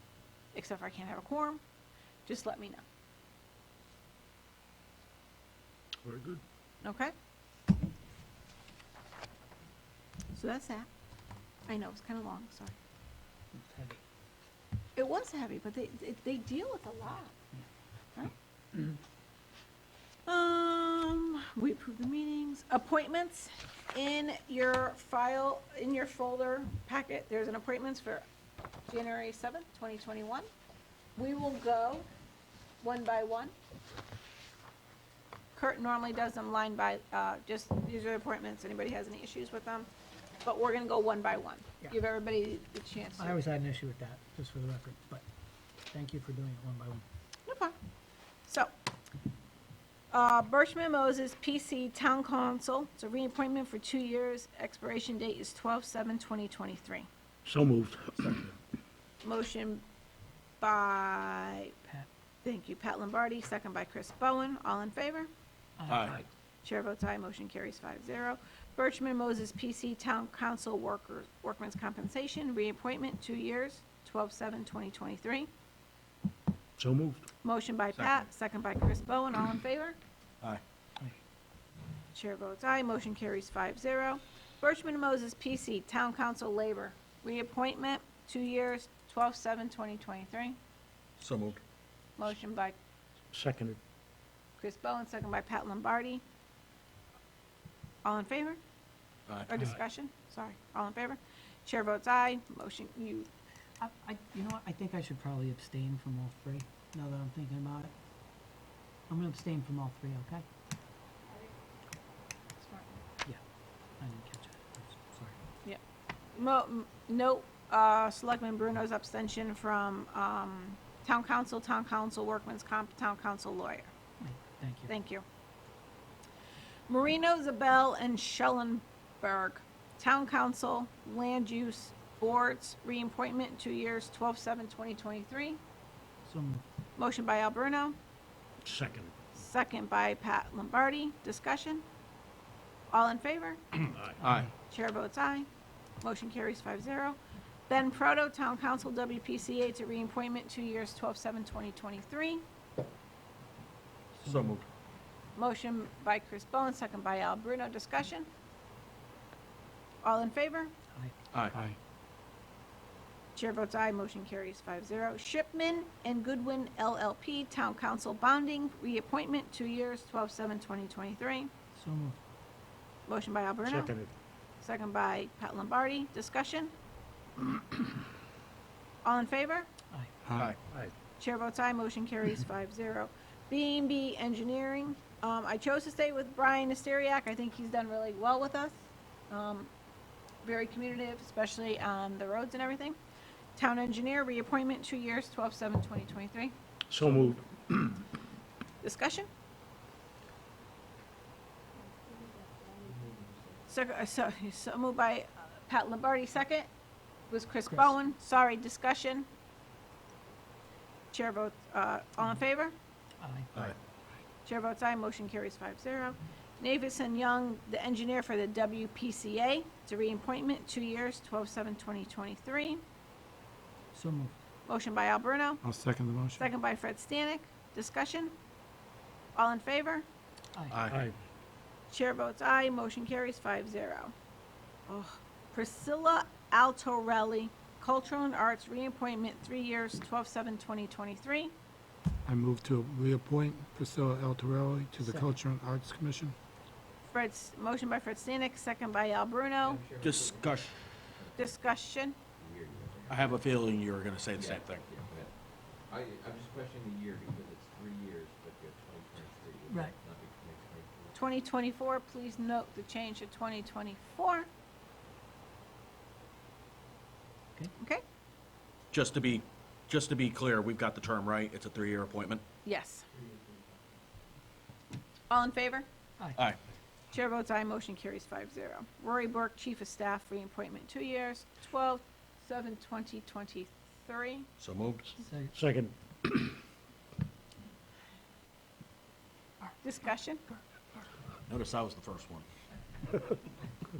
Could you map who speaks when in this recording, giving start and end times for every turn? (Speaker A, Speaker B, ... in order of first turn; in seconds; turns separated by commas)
Speaker A: 0.5-1.6, Speaker A: 2.3-2.9, Speaker B: 6.0-6.4, Speaker A: 6.8-7.1, Speaker A: 10.3-10.9, Speaker A: 11.7-12.8, Speaker C: 13.5-14.0, Speaker A: 15.0-17.4, Speaker A: 20.3-28.3, Speaker A: 28.9-30.5, Speaker A: 31.2-32.1, Speaker A: 32.8-33.5, Speaker A: 35.6-39.9, Speaker A: 40.5-43.4, Speaker C: 43.2-45.2, Speaker C: 45.9-47.0, Speaker A: 47.5-47.8, Speaker A: 48.5-48.7, Speaker A: 50.1-57.1, Speaker B: 57.5-58.5, Speaker A: 59.2-59.9, Speaker A: 60.6-61.8, Speaker A: 62.5-65.3, Speaker C: 65.8-66.2, Speaker D: 65.9-66.2, Speaker A: 66.6-75.5, Speaker B: 76.8-77.2, Speaker A: 77.4-80.0, Speaker D: 78.0-78.3, Speaker A: 82.1-90.6, Speaker D: 91.2-91.6, Speaker A: 92.2-92.8, Speaker B: 93.3-93.8, Speaker A: 94.6-96.2, Speaker A: 98.0-98.6, Speaker A: 99.5-103.3, Speaker C: 103.8-107.9, Speaker C: 109.1-110.5, Speaker A: 112.6-113.0, Speaker C: 114.0-115.4, Speaker A: 116.3-123.9, Speaker C: 124.2-124.9, Speaker A: 124.9-125.2, Speaker A: 126.9-135.6, Speaker C: 136.3-136.6, Speaker A: 137.0-138.0, Speaker B: 138.6-139.1, Speaker A: 139.4-141.8, Speaker A: 142.9-143.6, Speaker D: 144.2-144.5, Speaker A: 144.7-145.5, Speaker A: 146.0-147.2, Speaker A: 147.7-152.4, Speaker C: 154.2-154.5, Speaker D: 154.2-154.7, Speaker A: 155.4-158.3, Speaker A: 160.0-160.7, Speaker A: 163.3-171.5, Speaker C: 171.8-172.2, Speaker A: 173.1-173.9, Speaker B: 173.6-174.1, Speaker A: 174.6-176.7, Speaker A: 179.0-179.7, Speaker E: 180.2-180.5, Speaker A: 181.2-189.7, Speaker A: 190.4-193.0, Speaker A: 193.6-196.6, Speaker B: 196.9-198.1, Speaker A: 198.8-199.3, Speaker F: 202.9-203.6, Speaker A: 203.7-206.7, Speaker A: 207.3-209.3, Speaker A: 211.1-212.8, Speaker C: 213.2-213.6, Speaker A: 214.4-222.8, Speaker C: 223.9-224.3, Speaker A: 224.7-225.6, Speaker E: 225.6-226.5, Speaker A: 226.4-228.3, Speaker A: 229.3-230.1, Speaker D: 230.7-231.0, Speaker B: 230.9-231.2, Speaker A: 231.9-234.1, Speaker A: 234.9-241.5, Speaker E: 242.3-246.3, Speaker C: 245.0-245.3, Speaker A: 247.1-249.8, Speaker F: 249.7-251.6, Speaker D: 250.0-250.9, Speaker A: 251.4-252.2, Speaker F: 252.4-253.4, Speaker D: 253.1-254.8, Speaker F: 254.4-261.2, Speaker C: 259.7-259.9, Speaker A: 261.1-264.5, Speaker A: 267.8-268.0, Speaker D: 268.9-272.4, Speaker A: 272.6-273.1, Speaker F: 273.2-273.6, Speaker A: 275.3-275.9, Speaker A: 277.1-284.5, Speaker D: 284.6-285.1, Speaker C: 285.2-285.5, Speaker B: 285.4-286.6, Speaker A: 289.8-290.5, Speaker D: 291.5-292.5